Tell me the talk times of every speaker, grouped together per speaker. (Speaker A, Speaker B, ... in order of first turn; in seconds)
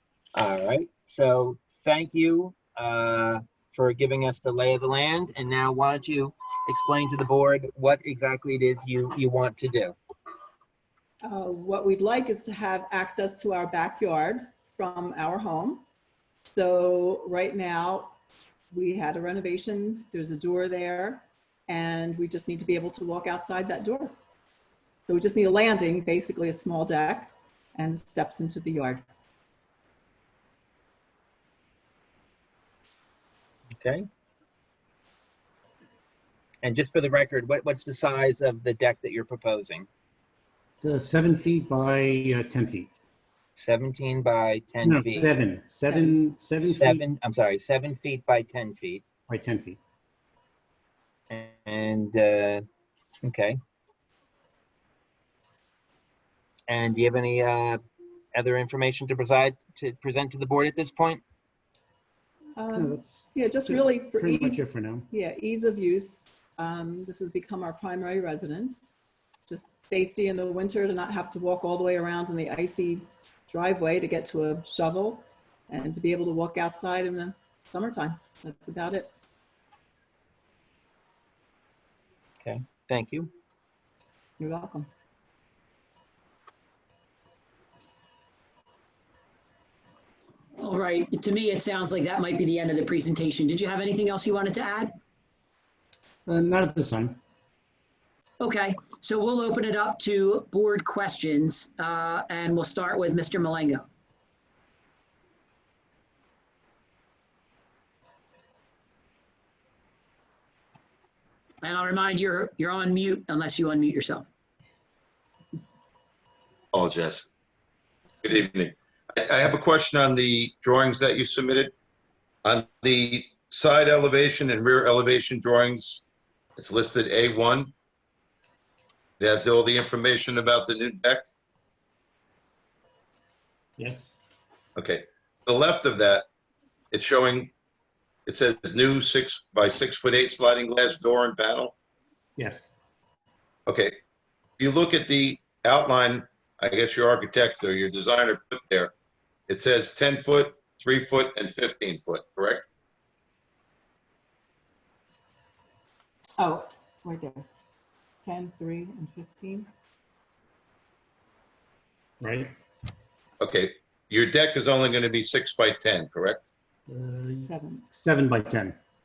Speaker A: 0.3-9.9, 33.8-34.0, 36.6-39.9, 43.6-45.4, 46.6-49.0, 51.3-52.6, 53.2-53.6, 56.7-57.8, 58.3-61.2, 82.4-83.3
Speaker B: 11.2-15.8, 16.4-18.2, 18.7-24.1, 25.1-29.1, 62.5-68.9, 69.5-79.1, 84.4-84.9, 156.4-157.4, 158.2-159.7, 167.5-167.9
Speaker C: 40.8-42.9, 44.8-47.0, 49.3-49.8, 62.7-65.1, 96.2-97.2, 133.8-134.1, 142.4-142.6, 162.2-162.5, 166.9-168.8
Speaker D: 90.6-94.9, 98.4-103.9, 111.6-114.2
Speaker E: 116.7-117.3, 118.2-121.7, 122.4-126.0, 126.6-127.7, 129.2-131.2, 134.8-136.2, 136.9-137.5, 138.2-141.7, 143.7-144.0, 144.6-148.9, 149.5-152.6, 163.4-166.5